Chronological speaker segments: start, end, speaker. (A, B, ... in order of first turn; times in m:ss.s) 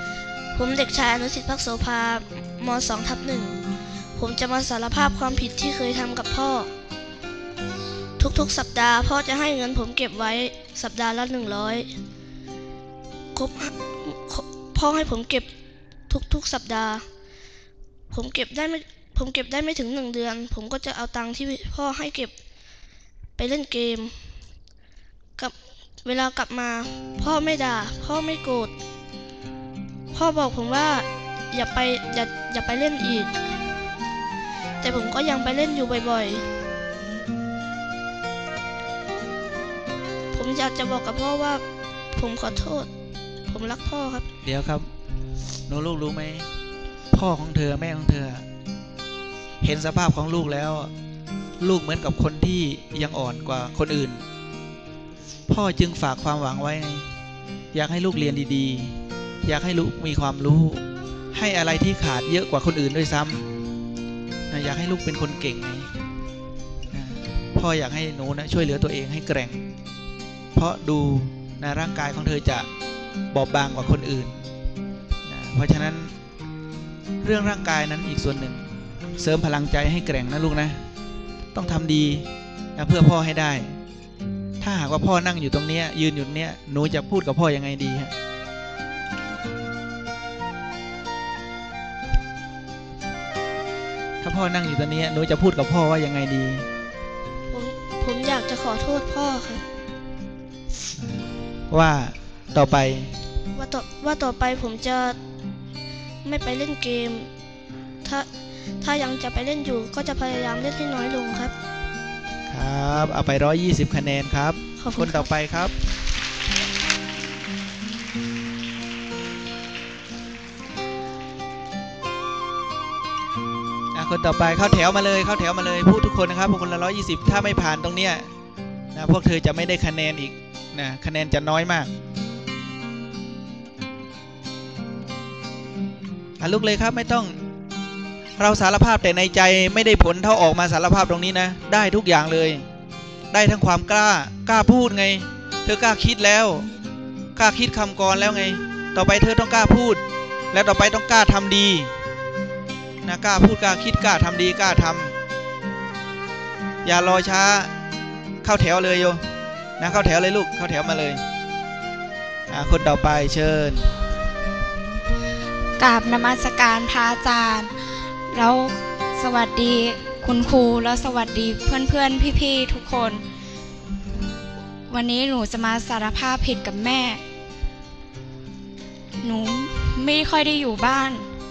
0:00.6-0:03.6 A
0:04.2-0:06.7 A
0:08.2-0:11.9 A
0:13.4-0:15.5 A
0:16.1-0:17.0 A
0:18.1-0:22.3 A
0:23.4-0:24.2 A
0:25.4-0:28.7 A
0:30.1-0:33.3 A
0:34.8-0:36.5 A
0:40.3-0:41.6 A
0:42.1-0:42.9 A
0:43.5-0:44.3 A
0:44.4-0:44.9 B
0:45.7-0:46.5 B
0:47.1-0:48.4 B
0:49.6-0:50.9 B
0:51.6-0:54.2 B
0:55.5-0:57.1 B
0:57.7-1:00.8 B
1:01.3-1:03.5 B
1:04.5-1:05.9 B
1:06.9-1:09.6 B
1:10.6-1:12.7 B
1:13.3-1:14.4 B
1:15.2-1:16.2 B
1:17.2-1:20.8 B
1:21.5-1:23.8 B
1:24.6-1:28.1 B
1:34.2-1:36.7 B
1:37.5-1:39.6 A
1:41.0-1:43.1 B
1:43.5-1:45.2 A
1:46.2-1:47.3 A
1:48.8-1:51.5 A
1:52.5-1:55.7 B
1:54.8-1:55.3 A
2:03.9-2:08.3 B
2:08.9-2:11.9 B
2:16.4-2:17.4 B
2:18.4-2:22.6 B
2:23.3-2:26.7 B
2:27.4-2:31.9 B
2:33.0-2:35.2 B
2:36.8-2:37.7 B
2:38.4-2:39.2 B
2:39.8-2:41.2 B
2:42.5-2:43.9 B
2:45.8-2:47.7 C
2:48.3-2:53.2 C
2:54.9-2:57.2 C
2:59.2-3:01.3 C